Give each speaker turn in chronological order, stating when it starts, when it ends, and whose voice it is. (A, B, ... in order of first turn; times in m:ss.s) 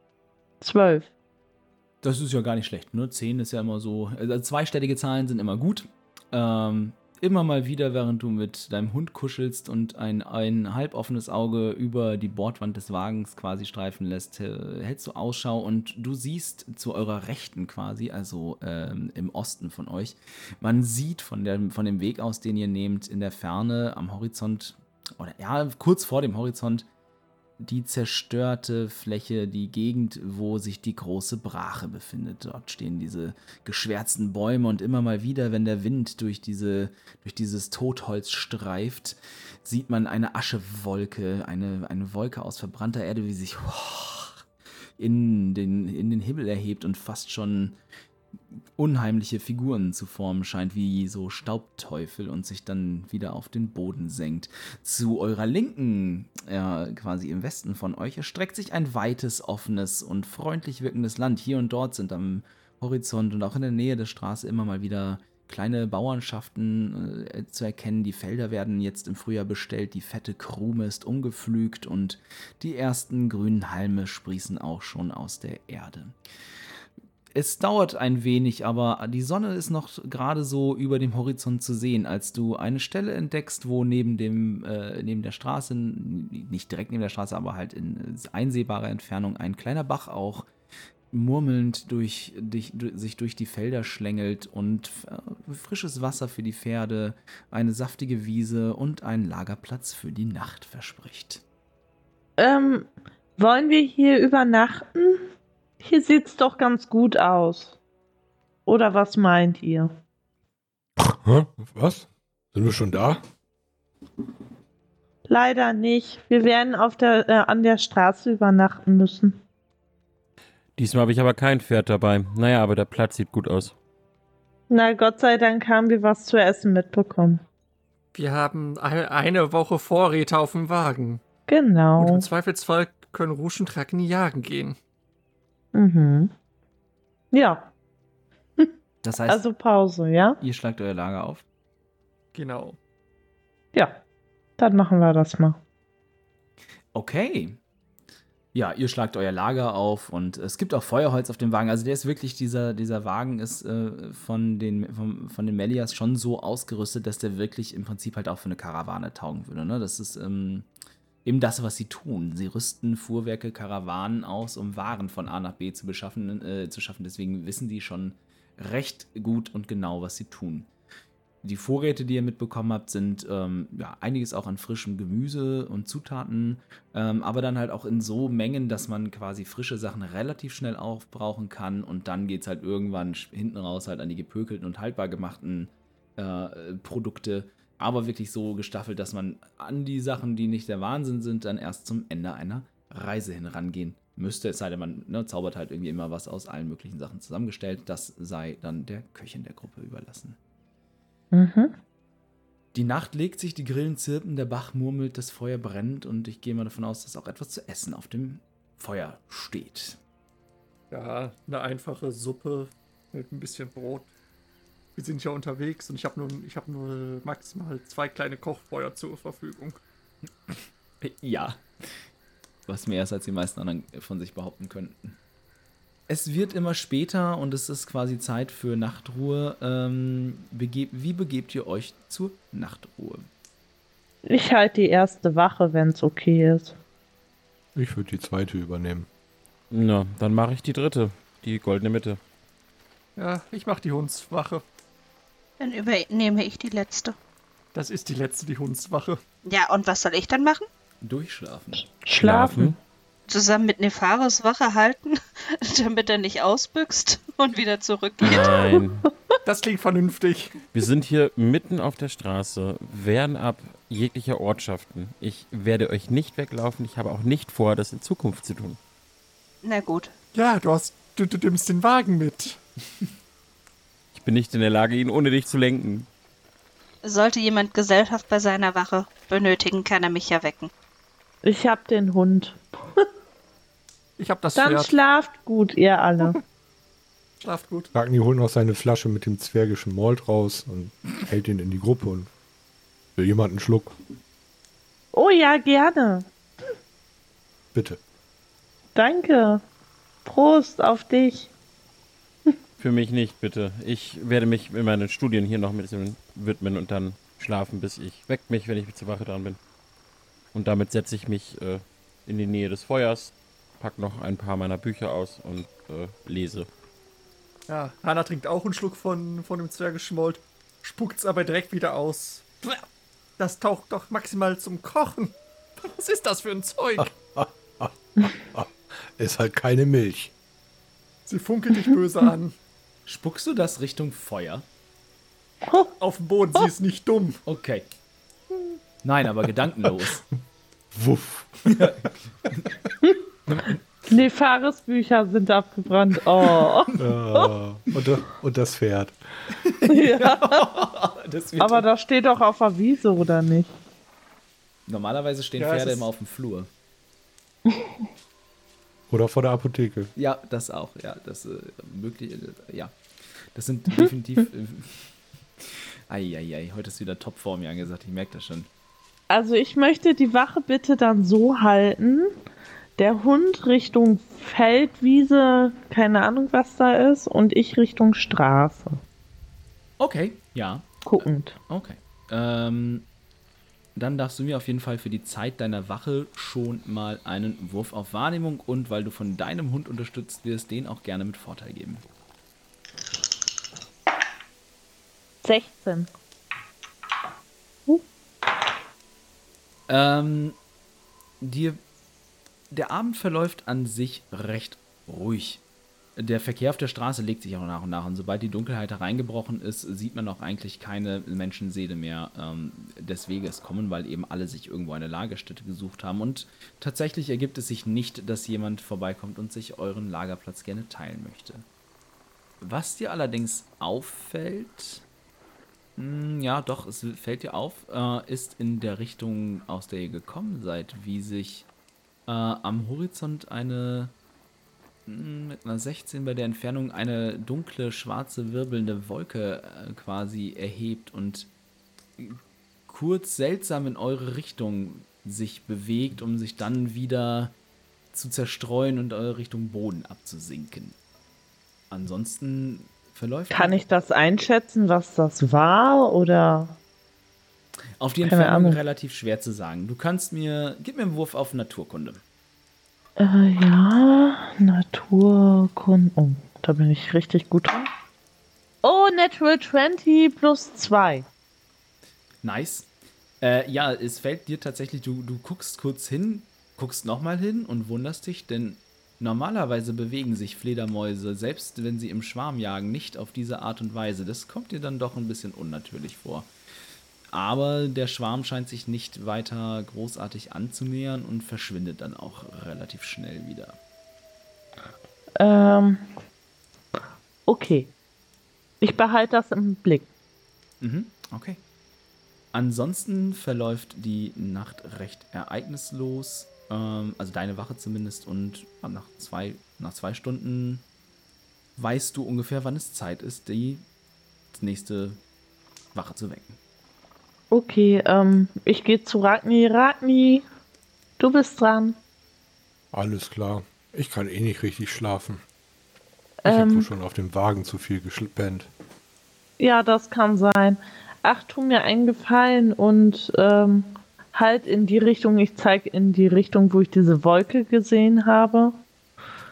0:00.6-0:01.1 A
0:02.0-0:26.9 B
0:27.6-0:44.4 B
0:45.0-0:47.8 B
0:48.8-1:16.2 B
1:17.3-1:30.5 B
1:31.1-1:41.4 B
1:42.4-1:45.3 A
1:45.8-1:47.8 A
1:48.6-1:49.9 A
1:51.0-1:53.2 C
1:55.3-1:59.4 A
2:00.8-2:03.7 D
2:04.7-2:07.4 A
2:08.1-2:11.2 E
2:11.5-2:12.2 A
2:12.0-2:14.8 E
2:15.7-2:16.3 A
2:17.3-2:17.7 A
2:19.0-2:19.4 B
2:19.3-2:20.4 A
2:20.4-2:21.4 B
2:22.3-2:22.8 E
2:23.7-2:24.0 A
2:24.6-2:25.6 A
2:26.9-2:27.6 B
2:28.5-2:40.7 B
2:41.2-2:50.7 B
2:51.4-3:20.4 B
3:21.3-3:21.8 A
3:22.7-3:30.0 B
3:30.9-3:34.1 E
3:35.0-3:39.8 E
3:40.5-3:41.9 B
3:42.7-3:45.2 B
3:46.1-3:53.3 B
3:54.2-3:56.8 A
3:57.7-3:59.1 C
3:59.7-4:02.2 D
4:03.2-4:04.6 E
4:05.6-4:07.2 F
4:07.7-4:09.2 E
4:09.4-4:10.7 F
4:11.0-4:11.9 B
4:12.0-4:12.8 A
4:12.2-4:12.8 D
4:13.3-4:18.5 F
4:18.2-4:19.1 D
4:19.4-4:20.6 E
4:20.7-4:28.8 D
4:29.6-4:30.1 F
4:30.3-4:32.6 E
4:34.1-4:36.1 D
4:37.0-4:40.7 F
4:41.4-4:43.0 A
4:44.2-4:44.9 E
4:44.6-4:46.4 A
4:47.4-4:47.9 E
4:47.9-4:52.3 C
4:53.2-4:53.9 C
4:55.1-4:56.3 A
4:57.7-4:58.0 C
4:58.9-4:59.6 A
5:00.2-5:01.5 A
5:02.8-5:09.6 D
5:10.5-5:16.7 D
5:17.7-5:22.8 E
5:23.4-5:27.2 E
5:27.0-5:30.3 C
5:31.3-5:32.5 E
5:33.1-5:34.6 B
5:36.0-5:37.4 E
5:37.4-5:37.9 B
5:39.0-5:40.2 B
5:40.9-5:42.1 C
5:41.7-5:42.7 B
5:44.1-5:47.5 A
5:47.0-5:49.2 C
5:49.6-5:51.8 B
5:49.9-5:50.6 A
5:51.6-5:53.7 A
5:54.9-5:56.7 B
5:55.6-5:56.1 E
5:59.1-6:00.1 C
6:00.1-6:03.0 B
6:03.5-6:05.1 B
6:06.1-6:08.7 B
6:09.3-6:12.3 A
6:13.0-6:19.0 A
6:20.0-6:21.0 B
6:21.0-6:21.6 A
6:21.7-6:23.1 B
6:24.0-6:32.0 B
6:35.4-6:36.1 A
6:39.9-6:40.6 B
6:41.4-6:41.8 B
6:42.7-6:45.6 B
6:46.2-7:01.6 B
7:02.6-7:05.0 B
7:06.0-7:11.7 B
7:12.3-7:14.1 B
7:15.1-7:21.5 B
7:22.2-7:27.5 B
7:28.1-7:31.0 B
7:31.9-7:33.8 B
7:33.5-7:36.8 A
7:38.0-7:42.2 B
7:38.2-7:38.8 A
7:43.2-7:47.9 A
7:48.8-7:51.2 A
7:52.4-7:52.9 B
7:53.4-8:06.5 B
8:07.3-8:13.8 B
8:15.4-8:16.0 A
8:17.5-8:17.9 A
8:18.8-8:20.1 A
8:20.8-8:21.6 B
8:22.5-8:30.8 B
8:31.8-8:33.8 B
8:34.5-8:35.2 B
8:35.9-8:36.6 B
8:37.5-8:40.4 A
8:41.2-8:42.0 A
8:42.9-8:45.4 C
8:46.4-8:46.9 A
8:46.4-8:48.7 C
8:49.6-8:58.8 A